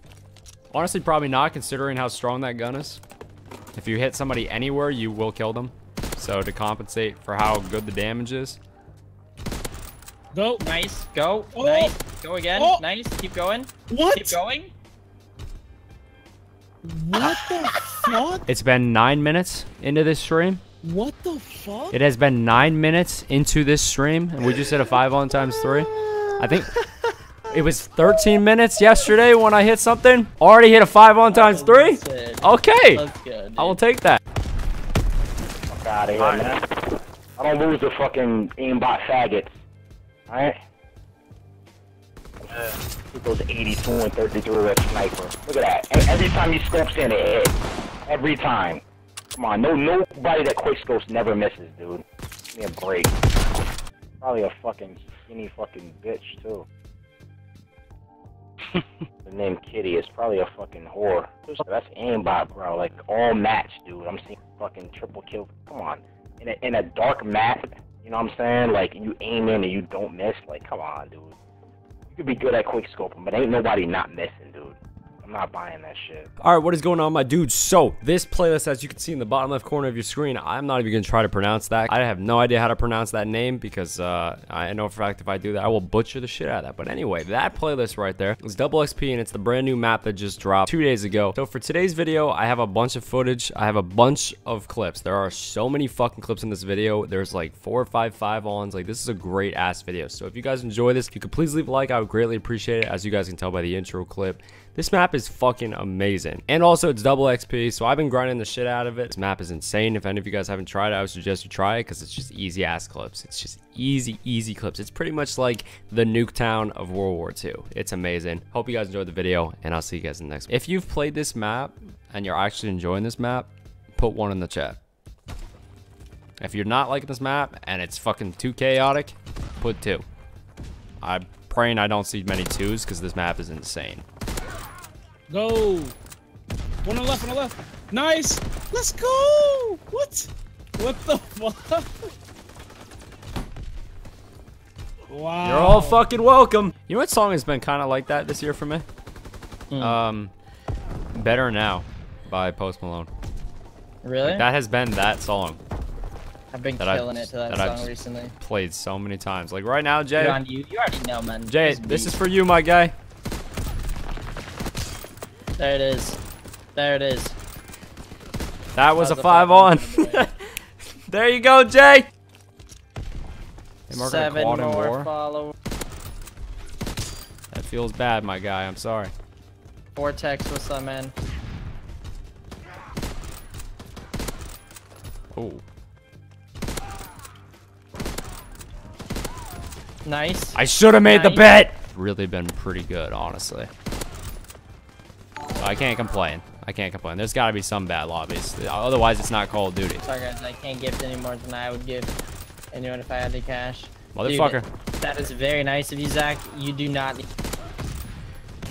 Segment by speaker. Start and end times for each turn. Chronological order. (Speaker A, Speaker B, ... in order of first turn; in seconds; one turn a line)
Speaker A: 0.7-3.0
Speaker A: 3.8-8.6
Speaker B: 10.3-10.7
Speaker C: 10.6-14.7
Speaker B: 11.6-11.9
Speaker B: 12.6-12.8
Speaker B: 13.9-14.4
Speaker B: 16.8-18.4
Speaker A: 18.5-20.6
Speaker B: 20.8-22.0
Speaker A: 21.9-26.7
Speaker A: 27.5-33.0
Speaker C: 31.3-33.8
Speaker A: 33.6-34.2
Speaker D: 35.7-36.6
Speaker D: 37.4-39.5
Speaker D: 40.3-40.6
Speaker D: 42.5-47.6
Speaker D: 48.1-48.8
Speaker D: 49.4-53.2
Speaker D: 54.2-56.6
Speaker D: 59.2-71.3
Speaker D: 72.1-76.3
Speaker A: 76.4-124.8
Speaker A: 126.4-130.1
Speaker A: 131.0-134.1
Speaker B: 135.3-135.9
Speaker B: 136.8-142.1
Speaker B: 145.1-146.1
Speaker A: 145.4-148.9
Speaker C: 149.7-150.0
Speaker A: 149.8-150.3
Speaker A: 151.1-153.1
Speaker C: 154.0-154.5
Speaker A: 154.2-155.6
Speaker C: 156.5-158.3
Speaker A: 156.8-160.4
Speaker C: 160.1-162.2
Speaker A: 161.5-162.9
Speaker C: 165.6-166.2
Speaker C: 166.8-167.3
Speaker A: 168.8-170.3
Speaker C: 168.9-170.3
Speaker A: 171.1-172.1
Speaker A: 173.9-175.1
Speaker C: 173.9-175.5
Speaker A: 177.5-179.1
Speaker C: 179.9-181.1
Speaker A: 185.3-185.6
Speaker C: 190.1-191.5
Speaker A: 190.6-193.7
Speaker A: 195.6-200.0
Speaker C: 200.0-202.1
Speaker C: 202.7-207.3
Speaker A: 204.1-204.7